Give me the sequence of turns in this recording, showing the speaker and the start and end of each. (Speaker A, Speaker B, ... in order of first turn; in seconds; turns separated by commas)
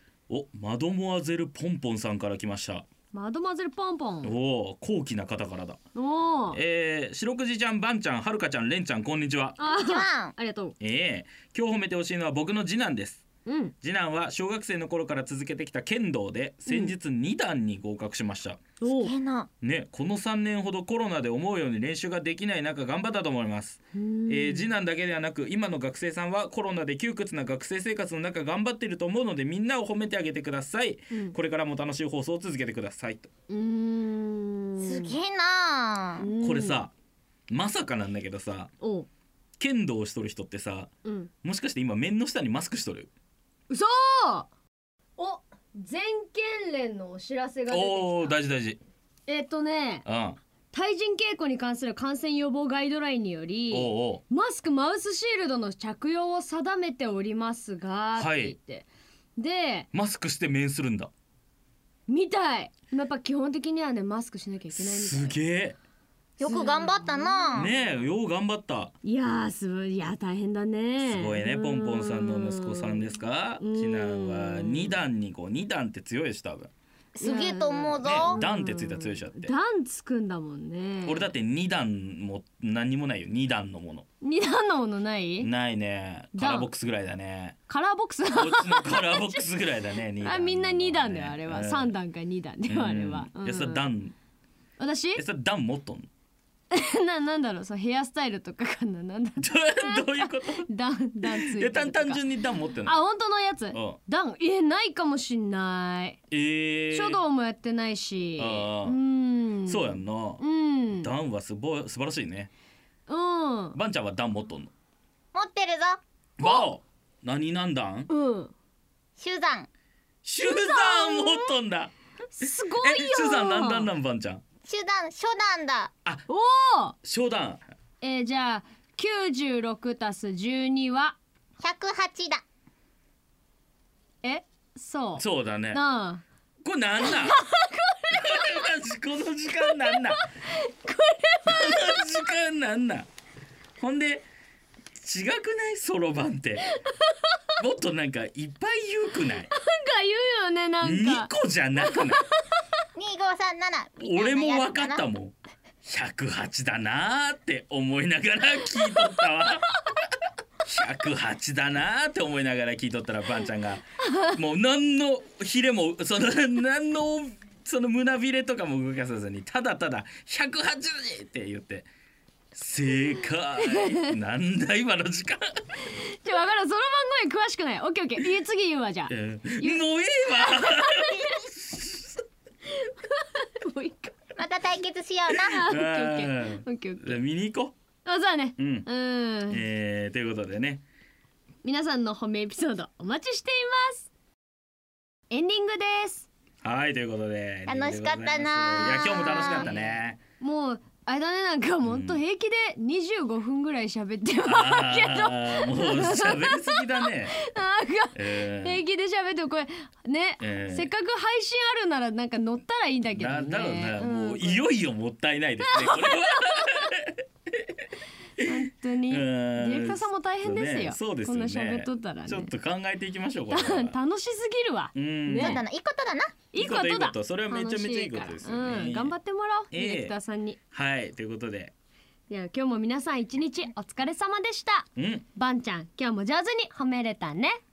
Speaker A: 0.3-2.8, Speaker B: 3.1-4.3, Speaker A: 4.2-5.8, Speaker B: 5.9-6.6, Speaker A: 6.5-9.6, Speaker B: 9.6-10.8, Speaker C: 9.6-10.3, Speaker A: 10.8-13.2, Speaker B: 13.4-13.7, Speaker A: 13.8-18.6, Speaker B: 16.6-16.9, Speaker B: 18.8-19.1, Speaker C: 19.0-19.5, Speaker A: 19.6-33.3, Speaker B: 23.9-24.7, Speaker B: 33.5-35.2, Speaker C: 34.8-36.3, Speaker B: 36.2-36.8, Speaker A: 36.4-36.9, Speaker A: 37.5-38.7, Speaker B: 38.8-39.1, Speaker A: 39.6-40.9, Speaker B: 41.0-41.3, Speaker A: 41.4-43.1, Speaker B: 43.7-44.5, Speaker B: 45.2-48.4, Speaker A: 47.7-48.8, Speaker B: 49.3-50.0, Speaker A: 50.0-50.4, Speaker B: 50.7-59.9, Speaker A: 53.7-54.2, Speaker A: 58.2-58.5, Speaker A: 59.9-61.1, Speaker B: 62.1-65.4, Speaker A: 64.7-65.8, Speaker C: 66.4-67.7, Speaker B: 66.4-67.8, Speaker A: 67.5-68.9, Speaker B: 69.0-75.0, Speaker A: 71.0-76.7, Speaker C: 77.2-78.4, Speaker B: 77.2-81.3, Speaker A: 78.0-79.5, Speaker A: 81.0-84.0, Speaker B: 84.2-85.5, Speaker A: 85.4-87.6, Speaker B: 86.3-86.7, Speaker B: 87.7-89.4, Speaker A: 88.3-91.9, Speaker B: 90.2-93.8, Speaker A: 92.7-94.1, Speaker B: 94.8-95.2, Speaker A: 95.2-96.1, Speaker B: 96.7-102.2, Speaker A: 99.4-100.7, Speaker A: 101.2-103.0, Speaker B: 102.8-106.2, Speaker A: 103.7-104.0, Speaker A: 106.3-107.2, Speaker B: 106.9-111.1, Speaker A: 108.4-109.0, Speaker A: 109.7-110.4, Speaker A: 110.9-112.5, Speaker B: 113.1-113.8, Speaker A: 113.8-114.7, Speaker C: 115.3-116.0, Speaker A: 116.4-118.1, Speaker B: 116.4-116.7, Speaker B: 118.1-118.5, Speaker C: 119.2-119.7, Speaker A: 120.2-124.4, Speaker B: 120.4-121.5, Speaker B: 122.3-123.9, Speaker C: 124.6-125.9, Speaker B: 126.3-127.0, Speaker A: 127.0-127.6, Speaker B: 128.0-131.2, Speaker C: 131.6-132.4, Speaker B: 134.2-136.2, Speaker A: 135.2-135.8, Speaker A: 136.6-137.4, Speaker B: 137.0-138.7, Speaker A: 138.1-140.2, Speaker B: 139.6-142.0, Speaker A: 141.4-143.1, Speaker A: 143.8-144.3, Speaker A: 145.0-146.7, Speaker B: 146.7-147.3, Speaker A: 147.6-149.5, Speaker B: 149.4-152.6, Speaker A: 150.8-152.2, Speaker C: 152.9-155.1, Speaker A: 154.0-159.7, Speaker A: 160.6-171.9, Speaker A: 172.5-175.7, Speaker B: 173.6-174.1, Speaker B: 175.9-181.5, Speaker A: 179.1-182.2, Speaker B: 182.7-184.1, Speaker C: 184.4-185.6, Speaker A: 185.3-187.7, Speaker B: 185.4-187.2, Speaker B: 188.0-189.6, Speaker A: 188.6-188.9, Speaker A: 189.5-190.8, Speaker B: 191.6-194.1, Speaker B: 195.3-196.3, Speaker A: 196.6-200.2, Speaker C: 197.7-199.7, Speaker B: 198.9-214.7, Speaker A: 201.8-202.2, Speaker A: 204.4-207.3, Speaker A: 208.1-208.8, Speaker A: 210.4-210.9, Speaker A: 213.1-217.9, Speaker B: 215.6-216.9, Speaker B: 218.4-222.5, Speaker A: 219.1-223.9, Speaker B: 223.5-225.6, Speaker A: 224.9-225.6, Speaker C: 225.4-226.4, Speaker B: 226.5-230.6, Speaker A: 226.6-229.1, Speaker A: 229.7-230.1, Speaker A: 230.7-231.7, Speaker B: 232.3-237.6, Speaker A: 235.0-235.2